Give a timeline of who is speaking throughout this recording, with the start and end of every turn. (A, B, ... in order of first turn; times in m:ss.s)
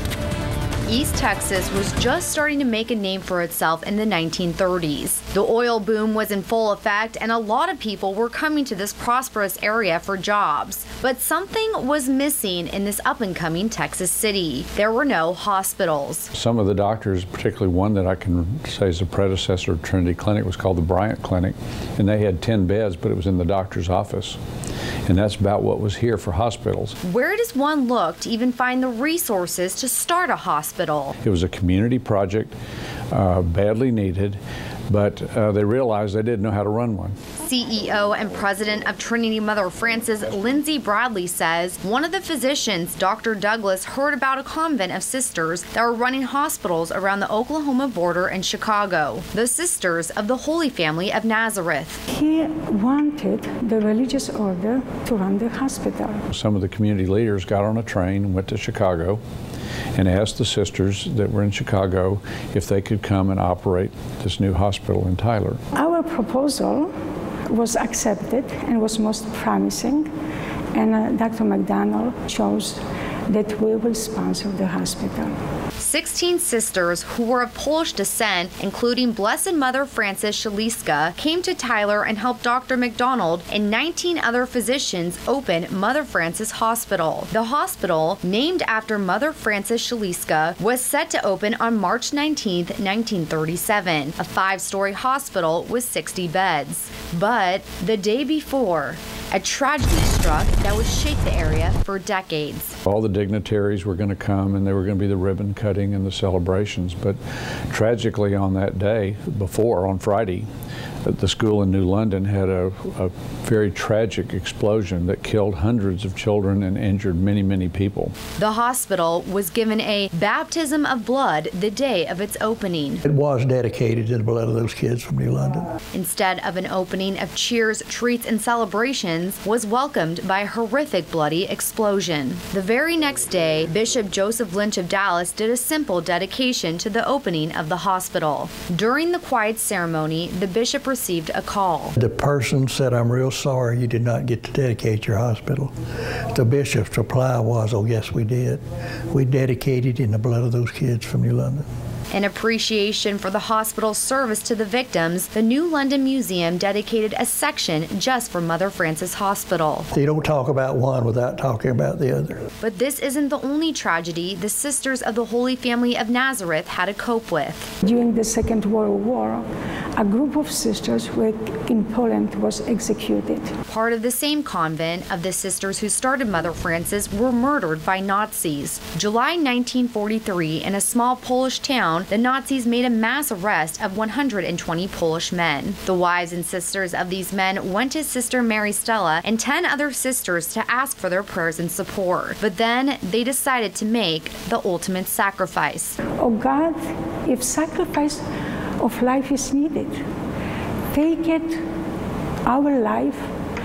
0:00.9-0:16.3 A
0:16.3-0:24.4 B
0:25.0-0:27.0 B
0:27.0-0:31.1 A
0:31.2-0:32.5 B
0:33.1-0:37.2 B
0:37.4-0:52.0 A
0:52.1-0:56.2 C
0:56.3-0:59.2 B
0:59.9-1:05.6 B
1:05.7-1:06.9 C
1:07.5-1:10.1 C
1:10.7-1:15.3 C
1:15.8-1:42.8 A
1:42.9-1:47.2 B
1:47.7-1:50.5 B
1:51.0-1:58.1 B
1:58.4-2:03.0 A
2:03.0-2:05.7 D
2:05.9-2:22.0 A
2:22.0-2:25.7 D
2:26.3-2:31.6 D
2:32.1-2:39.9 A
2:39.9-2:42.4 D
2:42.6-2:47.7 A
2:47.8-2:53.5 C
2:53.7-3:16.0 A
3:16.2-3:18.2 C
3:18.8-3:20.0 C
3:20.9-3:21.6 C
3:22.4-3:23.3 C